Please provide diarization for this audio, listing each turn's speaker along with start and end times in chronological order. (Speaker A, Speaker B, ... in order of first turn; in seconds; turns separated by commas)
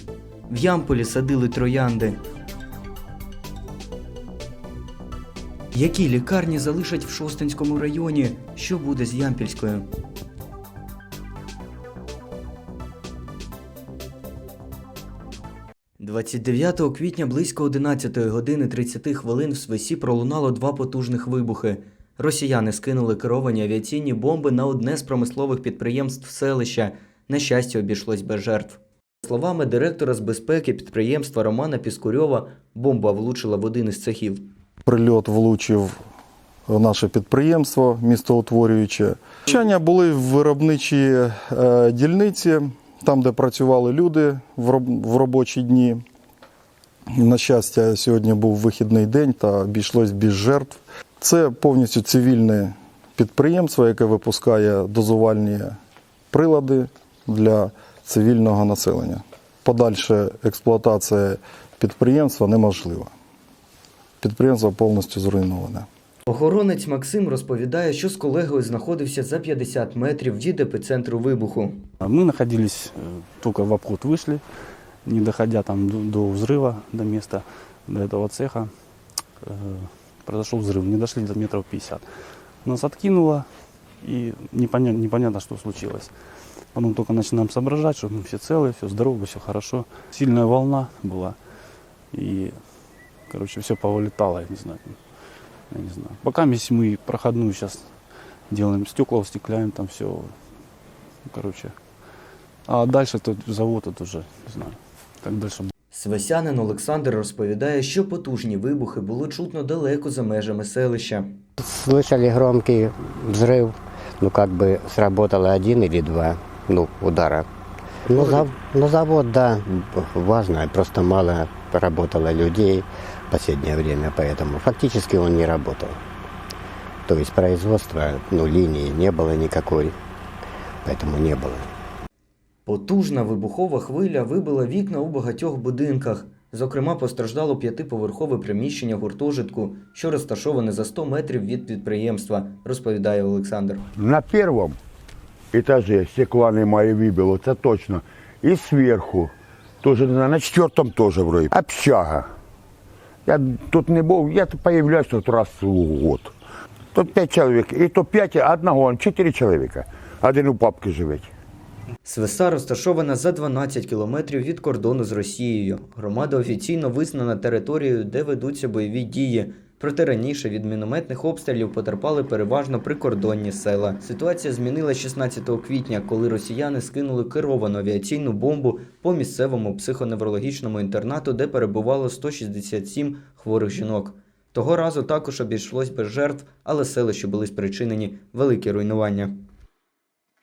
Speaker A: 0.5-2.2, Speaker A: 5.7-9.9, Speaker A: 16.0-34.5, Speaker B: 34.9-36.0, Speaker B: 36.7-46.0, Speaker B: 47.1-55.8, Speaker B: 56.3-63.1, Speaker B: 64.2-65.9, Speaker A: 66.3-71.8, Speaker C: 72.0-74.4, Speaker C: 75.0-78.7, Speaker C: 79.4-82.0, Speaker C: 82.6-83.5, Speaker C: 84.0-86.1, Speaker C: 86.7-91.4, Speaker C: 92.1-92.6, Speaker C: 93.3-95.0, Speaker C: 95.7-97.9, Speaker C: 98.5-100.3, Speaker C: 101.3-101.7, Speaker C: 102.7-105.7, Speaker A: 105.9-111.3, Speaker D: 111.6-117.5, Speaker D: 118.1-126.0, Speaker D: 127.1-129.9, Speaker D: 130.8-131.7, Speaker A: 132.7-143.8, Speaker E: 144.0-144.8, Speaker E: 145.5-152.3, Speaker E: 153.3-156.3, Speaker E: 156.9-161.3, Speaker A: 162.1-189.4